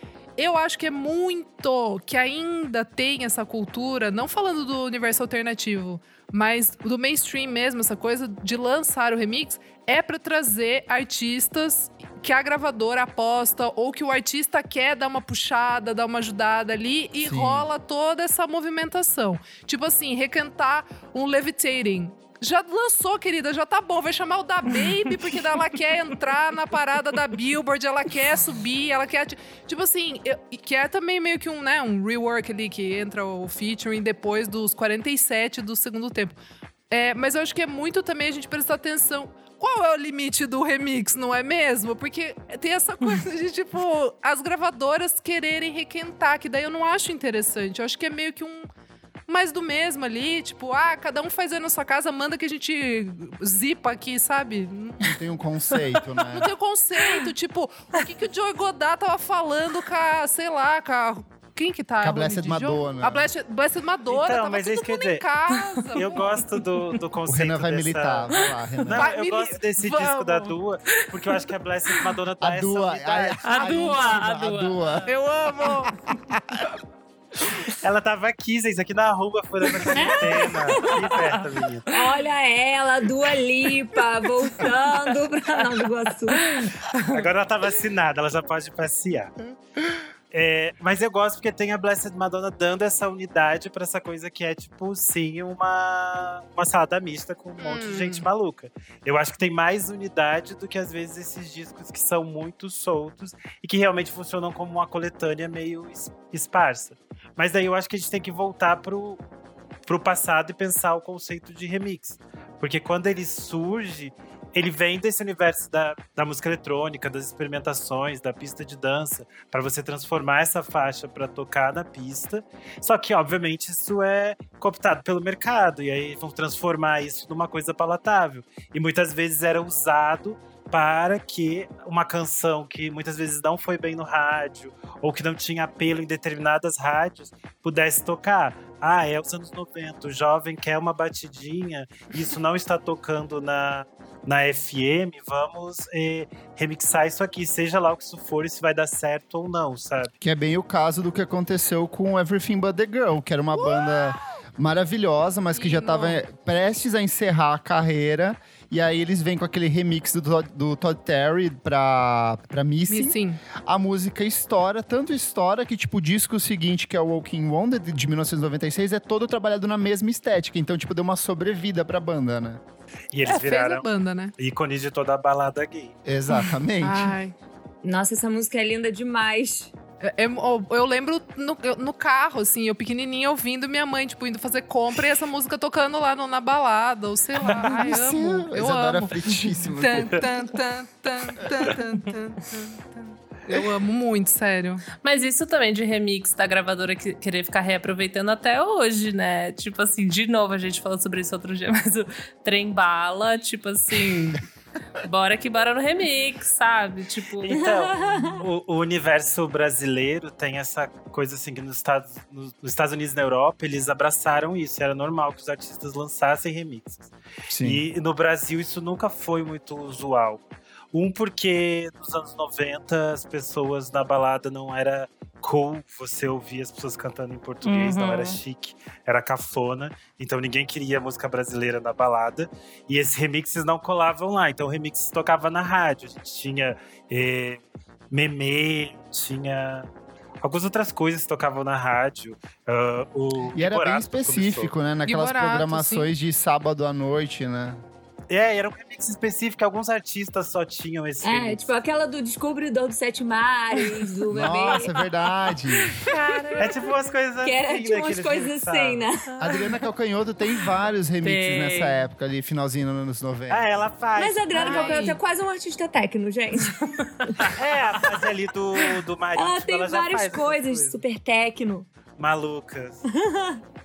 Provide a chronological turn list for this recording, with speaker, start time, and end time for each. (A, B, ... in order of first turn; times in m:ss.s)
0:00.4-0:36.4 A
0:17.2-0:17.7 B
0:36.9-0:48.7 A
0:49.3-0:55.2 A
0:55.0-0:56.5 B
0:56.3-1:06.4 A
1:02.0-1:03.2 B
1:04.1-1:05.2 C
1:05.5-1:06.0 D
1:06.0-1:13.9 C
1:07.3-1:09.1 B
1:08.9-1:10.5 A
1:12.4-1:15.1 B
1:13.4-1:15.1 D
1:15.0-1:16.0 A
1:15.6-1:16.7 B
1:17.8-1:21.9 C
1:20.0-1:21.0 E
1:21.9-1:26.7 E
1:26.4-1:27.1 D
1:27.0-1:29.3 C
1:30.3-1:49.2 C
1:37.6-1:38.2 A
1:49.9-2:30.1 C
2:30.2-2:52.6 B
2:33.6-2:34.2 A
2:35.5-2:36.2 A
2:42.9-2:43.4 A
2:53.1-2:56.0 C
2:53.2-2:54.3 A
2:56.0-2:57.2 B
2:56.4-2:57.3 A
2:57.8-2:59.7 E
3:00.0-3:14.8 A
3:07.5-3:10.3 B
3:14.9-3:24.5 D
3:25.0-3:27.6 D
3:27.4-3:40.4 C
3:27.6-3:28.4 E
3:37.5-3:37.8 B
3:40.9-3:59.9 C
3:47.6-3:48.4 D
4:00.4-4:04.7 C
4:03.5-4:07.8 B
4:05.0-4:06.1 A
4:08.3-4:11.7 C
4:11.2-4:14.9 E
4:14.3-4:15.9 B
4:16.0-4:17.1 D
4:16.6-4:19.0 C
4:17.4-4:19.3 E
4:19.4-4:23.6 B
4:21.2-4:22.0 D
4:23.5-4:24.9 C
4:24.2-4:28.0 E
4:24.5-4:25.2 A
4:27.5-4:31.0 C
4:29.4-4:31.9 E
4:32.2-4:33.0 C
4:33.1-4:33.6 E